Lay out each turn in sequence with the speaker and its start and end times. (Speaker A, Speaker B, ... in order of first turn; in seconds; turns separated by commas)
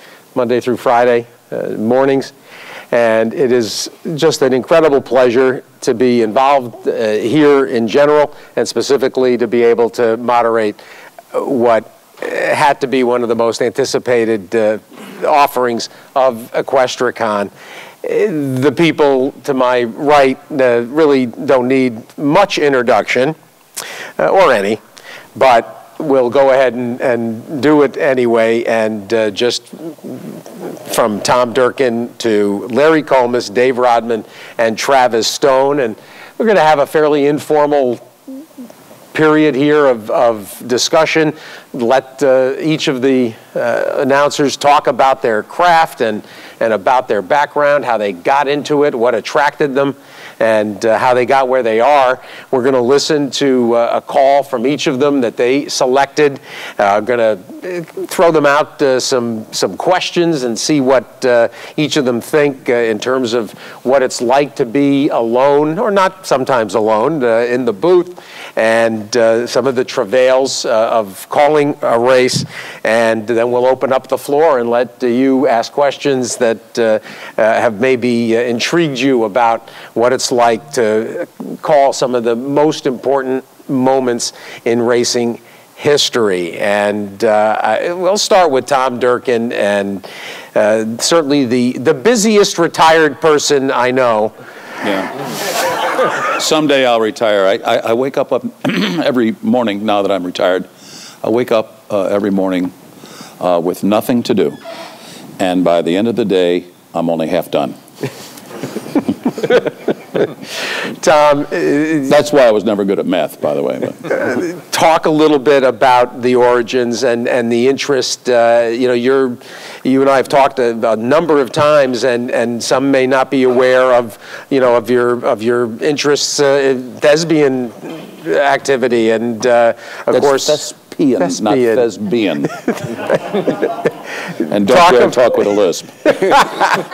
Speaker A: 0.3-2.3, Speaker A: 2.9-10.8, Speaker A: 11.3-17.5, Speaker A: 18.0-23.4, Speaker A: 24.2-24.8, Speaker A: 25.3-38.0, Speaker A: 39.1-94.3, Speaker B: 94.8-95.1, Speaker B: 96.2-100.7, Speaker B: 101.2-102.7, Speaker B: 103.4-104.6, Speaker B: 105.4-107.8, Speaker A: 111.0-112.1, Speaker B: 112.1-114.1, Speaker A: 114.1-130.6, Speaker B: 130.1-132.6, Speaker A: 131.2-131.8, Speaker B: 134.5-136.1, Speaker A: 134.7-135.1, Speaker A: 136.2-136.8